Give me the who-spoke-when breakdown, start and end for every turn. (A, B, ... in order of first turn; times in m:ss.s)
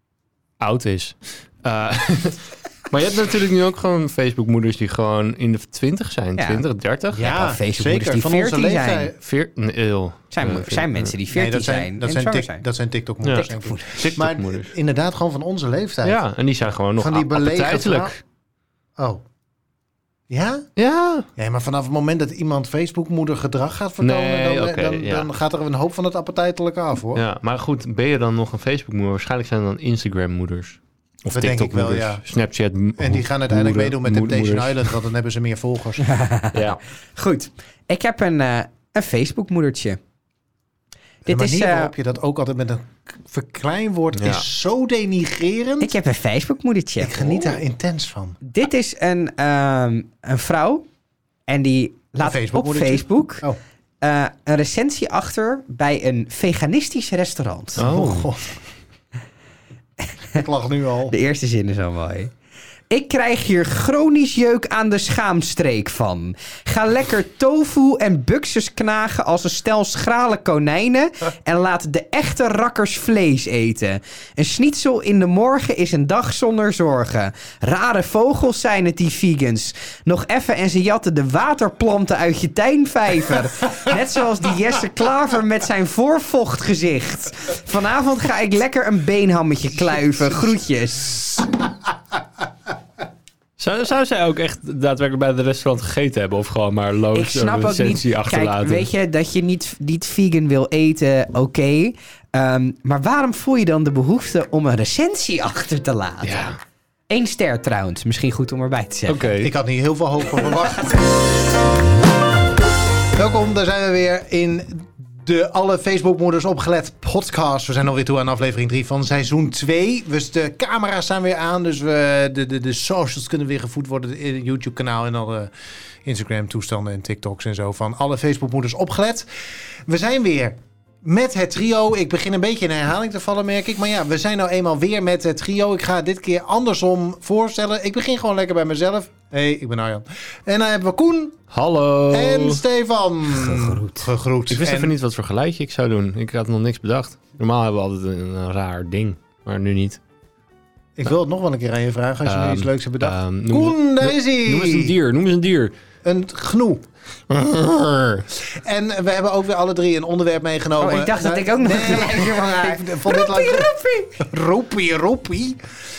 0:00.6-0:07.2 A
0:06.4-0:06.6 B
0:07.1-0:09.2 C
0:07.2-0:09.1 B
0:09.2-0:11.2 A
0:10.3-0:12.6 B
0:11.3-0:16.2 C
0:13.2-0:14.7 A
0:13.3-0:14.0 B
0:16.0-0:18.2 A
0:17.0-0:18.1 C
0:19.0-0:19.2 C
0:20.3-0:20.7 C
0:20.8-0:21.3 A
0:21.4-0:27.2 C
0:24.0-0:25.3 A
0:27.2-0:35.0 A
0:31.3-0:32.2 C
0:33.0-0:36.1 C
0:36.0-0:40.0 B
0:36.5-0:36.8 A
0:41.2-0:41.9 B
0:41.2-0:46.0 C
0:44.1-0:44.4 A
0:45.8-0:47.6 B
0:47.0-0:48.4 C
0:48.4-0:50.8 B
0:51.5-0:53.5 B
0:52.2-0:53.6 C
0:54.0-0:57.9 B
0:57.8-0:58.6 C
0:57.8-0:58.3 A
1:00.0-1:00.4 B
1:00.3-1:01.2 C
1:01.1-1:02.3 B
1:02.9-1:31.5 B
1:33.6-1:38.9 A
1:37.2-1:46.6 B
1:46.2-1:46.6 A
1:47.1-1:49.3 B
1:49.1-1:49.5 A
1:49.4-1:51.0 C
1:53.2-2:05.5 C
2:06.0-2:09.3 C
2:09.9-2:21.4 C
2:21.5-2:22.6 A
2:22.1-2:24.9 C
2:23.3-2:24.1 B
2:24.5-2:30.0 A
2:31.0-2:35.0 C
2:32.3-2:35.7 A
2:36.0-2:36.8 C
2:37.3-2:38.3 A
2:38.4-2:45.7 C
2:40.8-2:44.2 B